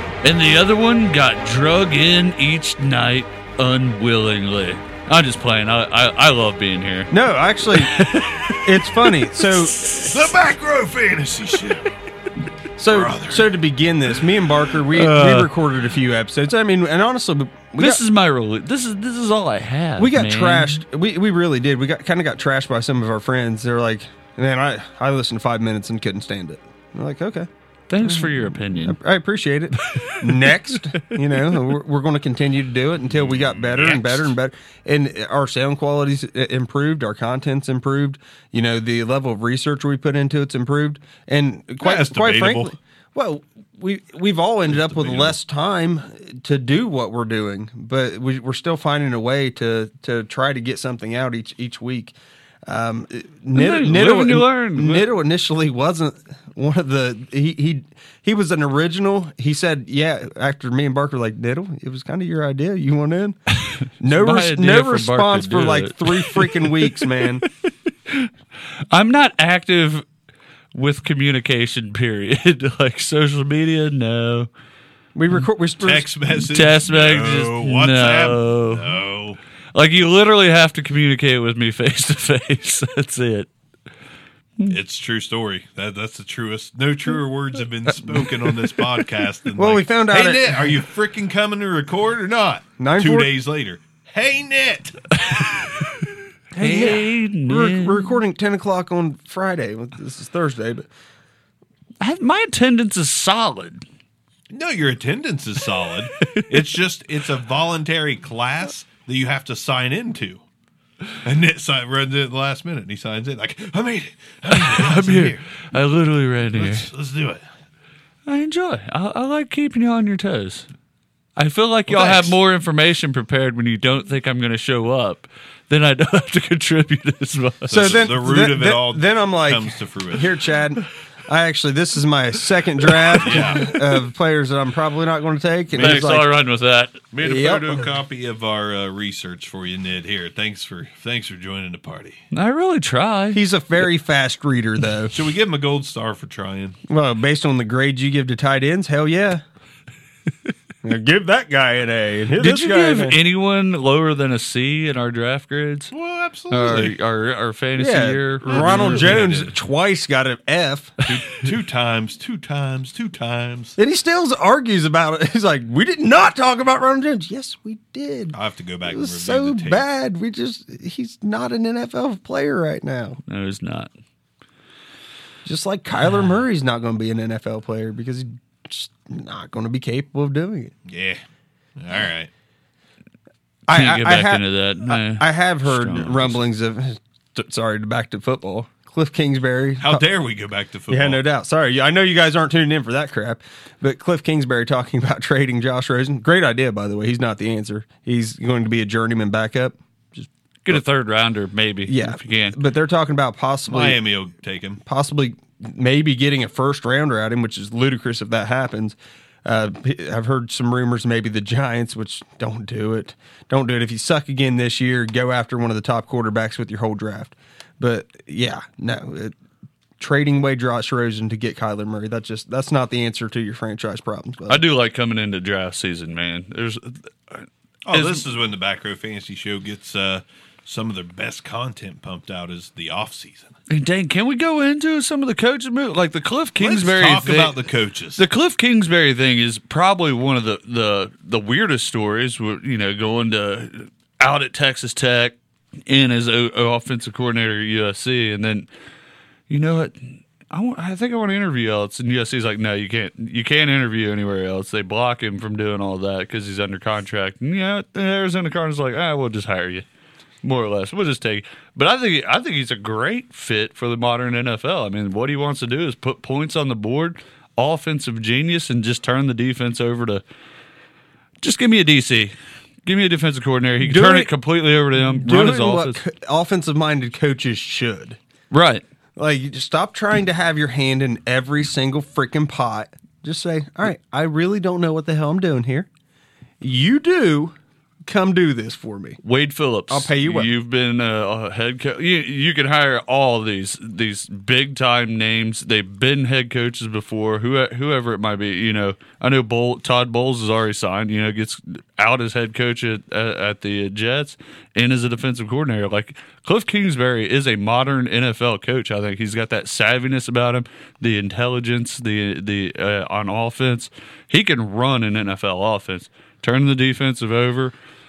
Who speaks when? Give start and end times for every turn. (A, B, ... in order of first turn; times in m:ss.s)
0:00.2-0:07.1 A
0:07.1-0:10.1 B
0:07.7-0:08.6 A
0:09.8-0:10.1 A
0:10.0-0:11.9 C
0:12.8-0:18.0 B
0:12.9-0:13.5 C
0:15.0-0:15.5 C
0:17.8-0:20.8 A
0:20.0-0:27.5 B
0:27.9-0:29.0 A
0:28.0-1:03.4 B
0:33.6-0:34.3 C
0:41.8-0:42.8 C
0:44.7-0:45.4 C
0:53.6-0:55.1 A
1:03.6-1:07.0 A
1:04.0-1:07.4 B
1:08.9-1:10.1 A
1:10.7-1:14.5 A
1:15.2-1:16.1 B
1:15.8-1:19.4 C
1:16.5-1:18.9 A
1:19.8-1:23.5 A
1:24.7-1:35.1 C
1:29.6-1:30.8 B
1:32.8-1:33.3 B
1:36.5-1:40.9 B
1:36.6-1:38.1 A
1:42.0-1:43.8 A
1:44.5-1:50.4 C
1:51.2-1:55.7 C
1:54.5-1:56.9 A
1:56.5-1:57.4 C
1:58.3-2:00.7 A
2:01.4-2:08.0 A
2:01.9-2:02.4 C
2:07.7-2:10.3 C
2:07.7-2:16.3 B
2:13.2-2:13.7 C
2:15.8-2:17.0 A
2:15.8-2:16.1 C
2:17.1-2:22.2 C
2:17.2-2:17.8 B
2:22.3-2:23.4 A
2:23.3-2:25.2 B
2:25.1-2:26.8 C
2:26.9-2:29.4 B
2:30.8-2:33.2 B
2:32.4-2:35.9 A
2:35.9-2:37.0 C
2:36.5-2:39.5 A
2:37.8-2:41.0 B
2:38.5-2:39.5 C
2:41.1-2:43.8 C
2:43.8-2:53.2 B
2:48.3-2:49.8 C
2:53.3-2:53.9 A
2:55.4-3:00.7 B
3:00.9-3:01.2 C
3:01.8-3:02.3 C
3:03.7-3:10.0 B
3:03.7-3:06.4 A
3:09.8-3:11.2 C
3:10.9-3:20.3 B
3:20.6-3:22.6 A
3:21.9-3:24.0 B
3:23.7-3:24.8 C
3:24.8-3:39.3 B
3:40.0-3:44.6 B
3:44.5-3:48.2 A
3:47.9-3:53.5 C
3:53.7-3:57.6 A
3:56.6-3:58.2 C
3:58.2-4:08.7 A
4:09.5-4:19.8 A
4:20.4-4:30.2 A
4:31.4-4:32.3 A
4:32.8-4:36.0 A
4:33.8-4:34.3 B
4:35.1-4:38.2 B
4:38.5-4:38.8 A
4:39.2-4:45.9 B
4:46.6-4:49.2 B
4:49.2-5:17.7 A
4:49.9-4:50.5 B